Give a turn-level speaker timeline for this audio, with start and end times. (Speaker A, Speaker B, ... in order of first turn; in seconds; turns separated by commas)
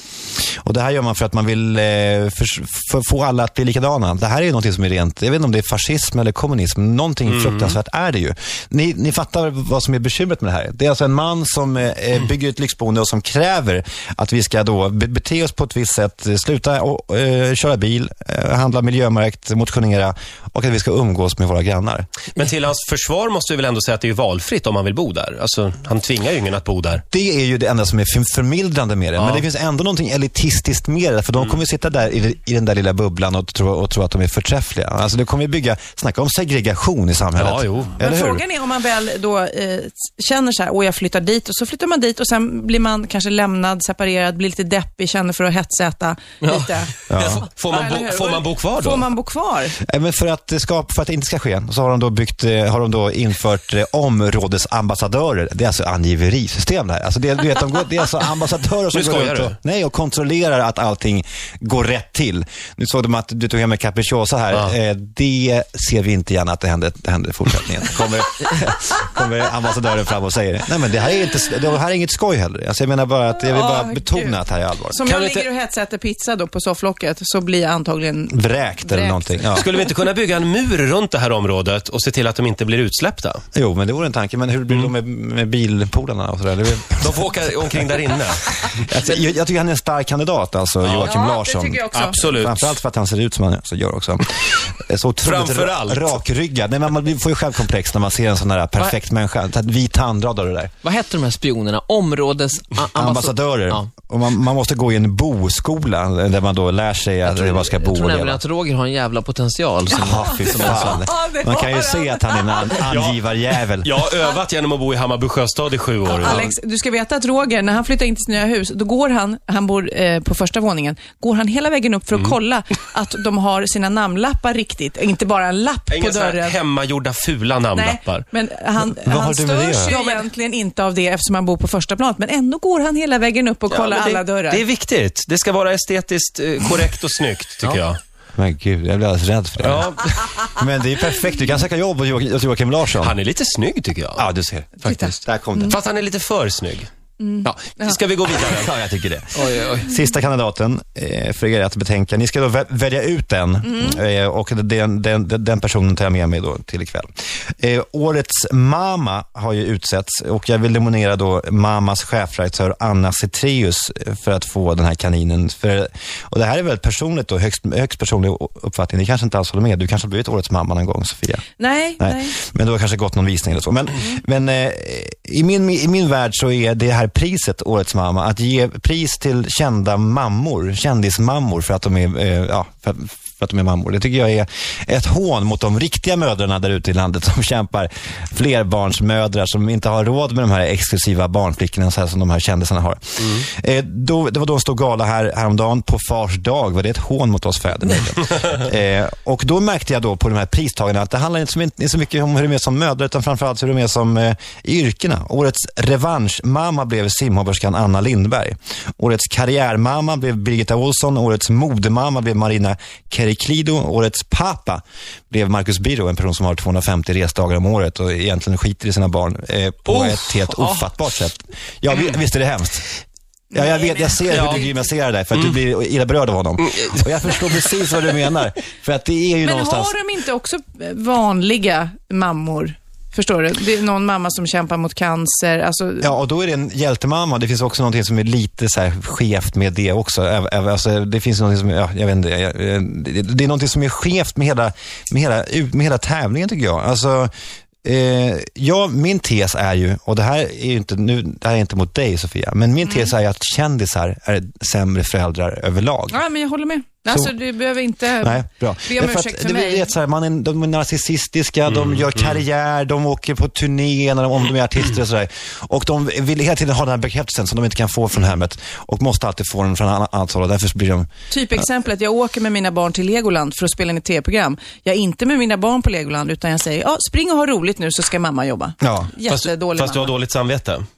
Speaker A: 0.6-22.1, Speaker B: 7.3-7.8, Speaker B: 22.4-27.0, Speaker A: 27.1-38.4, Speaker B: 29.2-29.5, Speaker B: 37.4-38.0, Speaker C: 38.0-47.0, Speaker D: 46.4-46.7, Speaker A: 47.1-47.5, Speaker B: 47.1-49.1, Speaker C: 47.6-49.8, Speaker A: 49.8-75.0, Speaker B: 58.9-59.6, Speaker C: 73.4-74.4, Speaker C: 74.9-79.7, Speaker B: 75.1-75.5, Speaker A: 78.3-79.7, Speaker B: 79.5-83.4, Speaker A: 83.5-87.5, Speaker B: 87.0-88.8, Speaker A: 88.6-100.7, Speaker B: 90.8-91.2, Speaker C: 91.1-92.2, Speaker B: 91.9-92.8, Speaker B: 95.2-96.2, Speaker D: 100.8-103.9, Speaker A: 102.9-108.4, Speaker D: 107.2-111.0, Speaker A: 109.9-114.0, Speaker C: 110.3-112.8, Speaker B: 112.8-113.2, Speaker B: 113.8-116.5, Speaker A: 116.1-116.5, Speaker C: 116.1-126.6, Speaker B: 125.9-128.3, Speaker C: 127.7-134.6, Speaker A: 128.9-130.0, Speaker B: 129.9-130.2, Speaker B: 133.7-138.0, Speaker A: 138.4-139.9, Speaker B: 139.6-140.4, Speaker A: 140.5-143.2, Speaker B: 143.0-144.2, Speaker A: 144.2-145.8, Speaker C: 144.8-145.8, Speaker B: 145.7-146.9, Speaker C: 147.2-148.0, Speaker B: 147.4-148.8, Speaker A: 148.4-157.1, Speaker D: 149.3-149.9, Speaker A: 157.6-171.4, Speaker C: 171.6-172.4, Speaker A: 172.0-222.9, Speaker B: 193.2-193.5, Speaker B: 219.9-221.0, Speaker C: 223.5-224.9, Speaker A: 223.5-230.0, Speaker B: 224.3-224.7, Speaker B: 226.7-227.0, Speaker C: 229.4-236.1, Speaker A: 236.0-247.3, Speaker A: 247.8-256.2, Speaker C: 252.9-253.1, Speaker C: 256.1-259.9, Speaker A: 257.1-257.3, Speaker A: 258.2-271.6, Speaker B: 261.7-262.4, Speaker C: 271.3-280.1, Speaker A: 278.8-279.1, Speaker B: 279.3-280.8